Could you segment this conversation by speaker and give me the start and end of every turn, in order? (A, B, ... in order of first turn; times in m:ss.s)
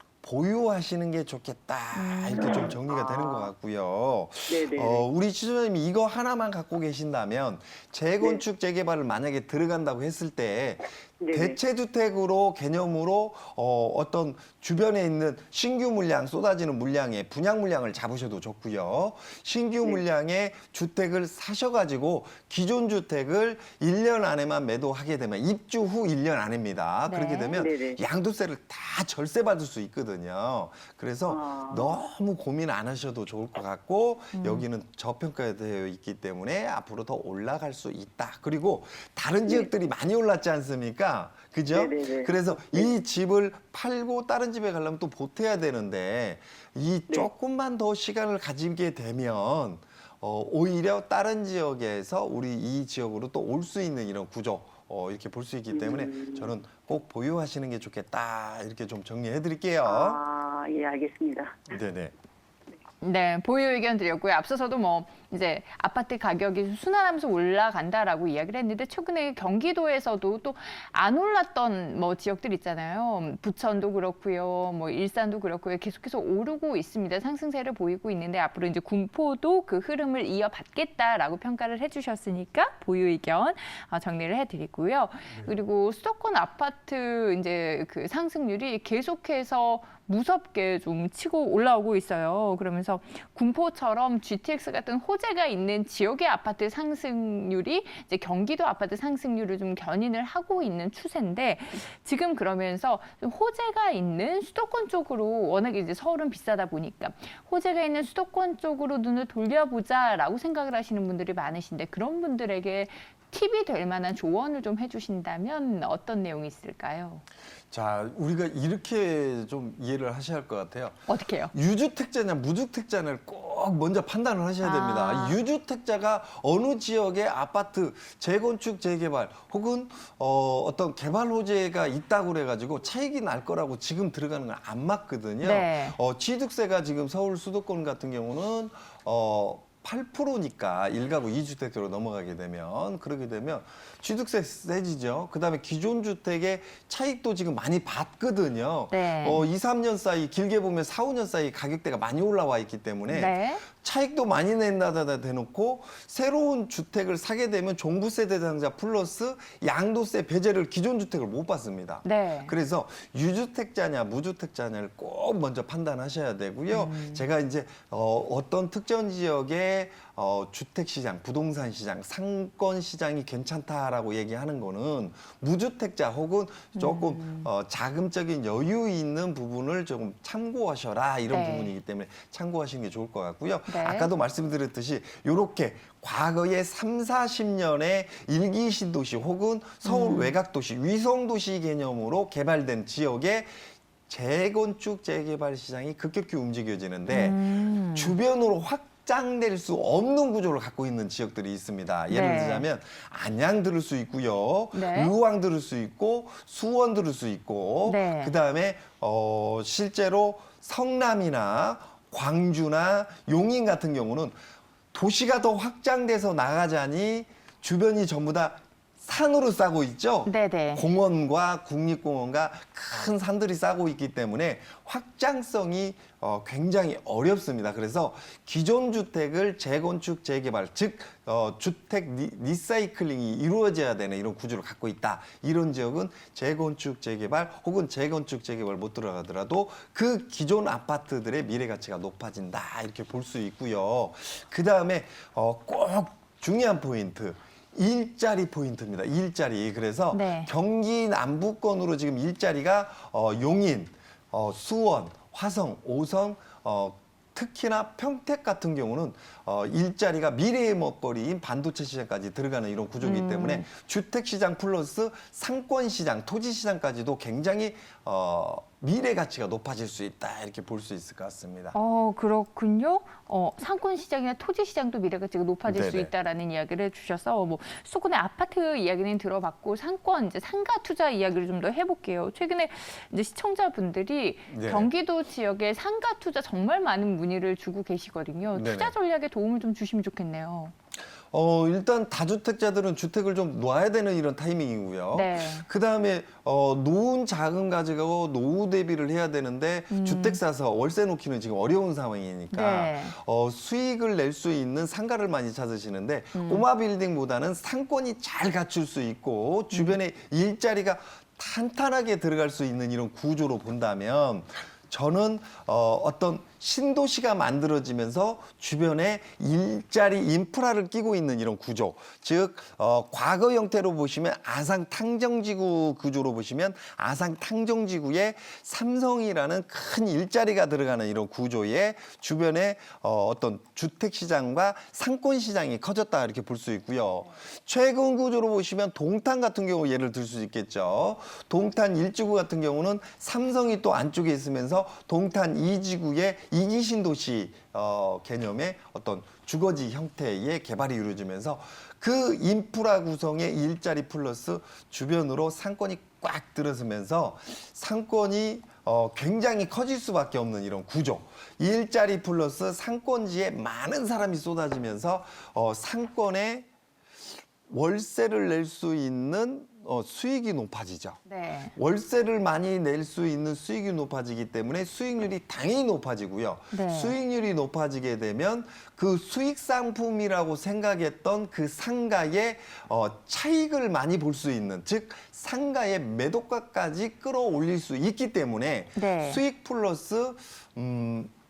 0:00.2-1:00.2 A
0:01.9-0:02.7 B
0:02.4-0:03.5 C
0:04.5-0:05.0 C
0:11.2-0:11.6 C
0:27.0-0:27.6 B
0:27.5-0:28.0 C
0:31.3-0:32.0 C
0:34.3-0:34.7 B
0:39.4-0:39.7 C
0:41.7-0:42.9 C
0:55.7-0:56.5 C
0:59.8-1:01.7 C
1:01.7-1:02.1 A
1:03.0-1:57.2 B
1:57.7-3:17.4 A
2:01.1-2:01.5 B
2:04.6-2:05.4 B
2:15.4-2:16.0 B
2:28.9-2:29.5 B
2:33.1-2:33.6 B
2:42.0-2:42.5 B
2:46.7-2:47.2 B
2:56.7-2:57.5 B
3:01.3-3:01.7 B
3:03.7-3:04.1 B
3:09.8-3:10.4 B
3:17.1-3:18.2 B
3:17.9-3:34.3 A
3:22.1-3:22.6 B
3:24.7-3:25.1 B
3:27.8-3:28.3 B
3:34.9-4:31.8 A
3:40.2-3:40.8 B
4:10.1-4:10.5 B
4:23.0-4:23.7 B
4:31.7-4:50.7 B
4:35.6-4:36.1 A
4:44.5-4:44.9 A
4:48.5-4:48.9 A
4:51.3-6:06.7 A
4:55.1-4:55.6 B
4:59.9-5:00.4 B
5:02.5-5:03.2 B
5:06.3-5:06.6 B
5:09.7-5:10.0 B
6:07.6-6:11.2 A
6:11.2-6:11.7 B
6:11.7-6:31.3 A
6:16.7-6:17.2 B
6:29.0-6:29.4 B